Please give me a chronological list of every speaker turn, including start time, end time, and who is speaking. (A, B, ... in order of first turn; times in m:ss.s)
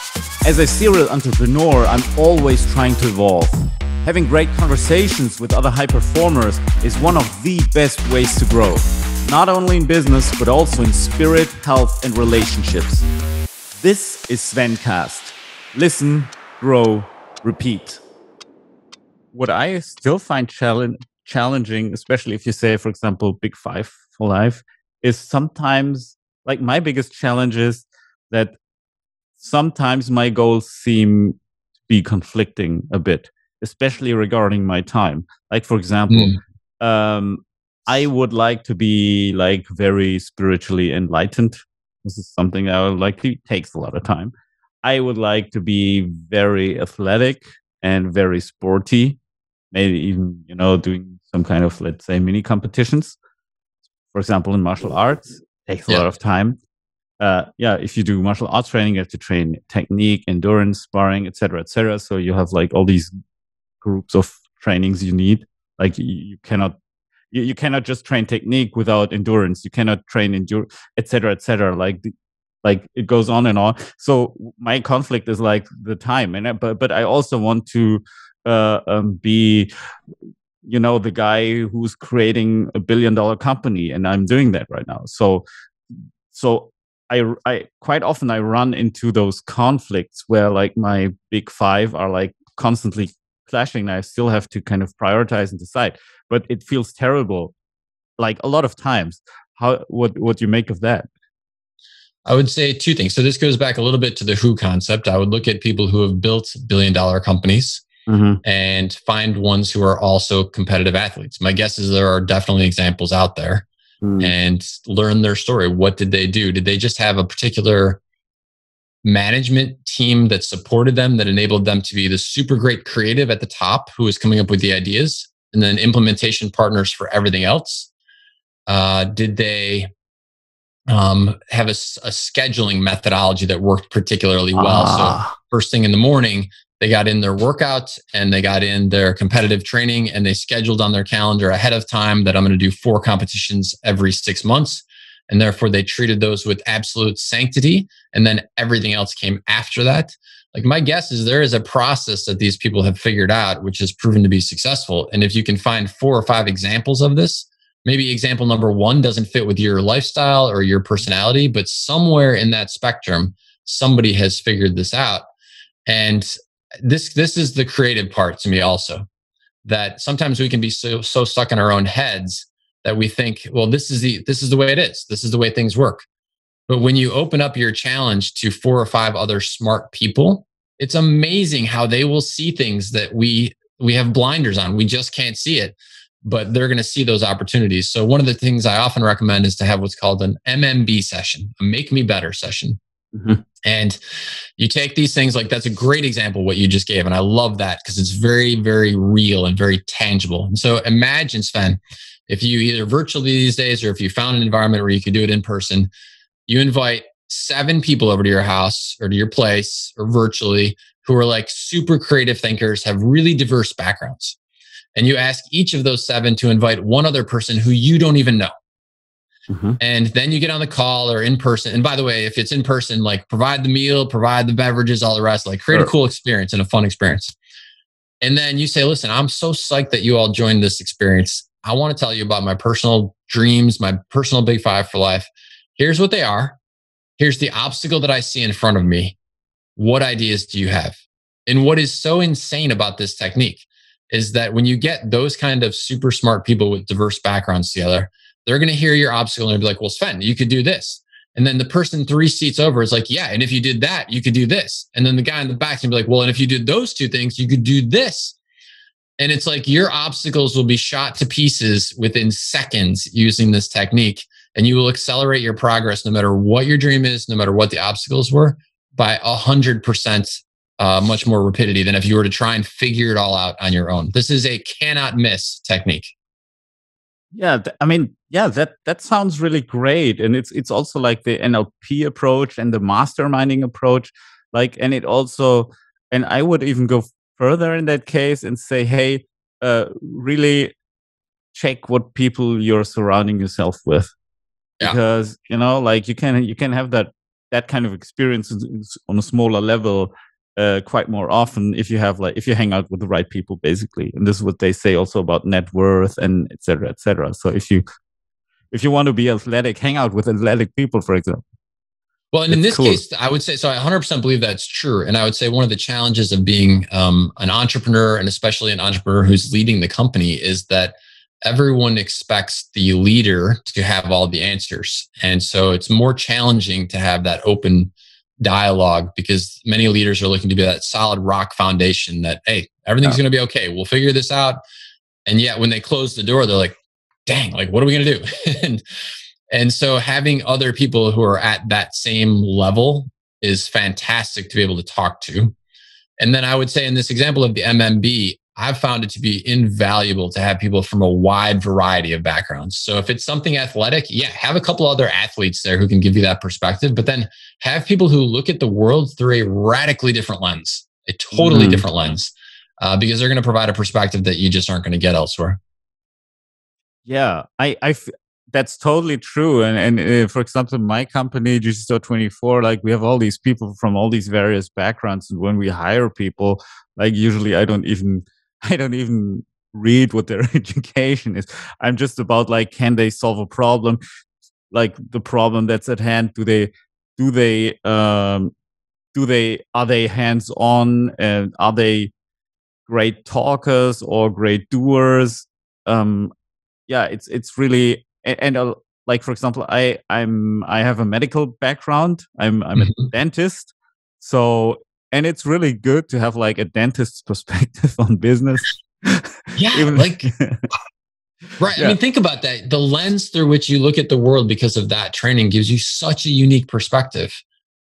0:00.4-0:13.1 A
0:13.8-0:18.0 A
0:19.3-0:28.6 A
0:29.4-0:49.2 A
0:36.1-0:36.4 B
0:49.7-0:53.2 A
0:54.1-0:56.6 A
0:57.2-1:03.1 A
1:03.8-1:06.8 A
1:07.3-1:12.1 A
1:12.6-1:19.7 A
1:20.6-1:25.4 A
1:26.3-1:37.5 A
1:38.2-1:41.1 A
1:42.2-1:47.8 B
1:48.1-1:48.4 A
1:48.4-1:53.6 B
1:54.0-1:54.3 A
1:54.2-1:58.0 B
1:59.0-2:07.9 B
2:08.7-2:09.9 B
2:10.9-2:45.2 B
2:14.5-2:15.3 A
2:45.9-2:46.3 B
2:46.8-2:49.0 B
2:49.6-2:56.0 B
2:56.7-3:12.8 B
3:13.1-3:13.4 A
3:13.6-3:14.0 B
3:14.6-3:25.9 B
3:26.5-3:34.4 B
3:35.0-3:38.5 B
3:39.5-3:39.8 A
3:39.8-3:47.3 B
3:48.2-3:56.6 B
3:57.2-3:59.2 B
3:59.8-4:18.4 B
4:19.2-4:36.1 B
4:37.3-4:50.7 A
4:51.5-4:54.1 A
4:54.8-5:07.8 A
5:08.7-5:11.4 A
5:12.3-5:27.9 B
5:12.5-5:13.0 A
5:28.4-5:34.6 B
5:35.3-5:36.8 B
5:37.3-5:38.8 B
5:39.5-5:45.5 B
5:46.2-6:05.6 B
6:01.3-6:01.9 A
6:07.0-6:24.0 A
6:24.7-6:28.5 A
6:29.1-6:32.1 A
6:32.9-6:36.3 A
6:36.9-6:50.6 A
6:42.8-6:43.1 B
6:49.6-6:50.3 B
6:51.6-6:57.4 B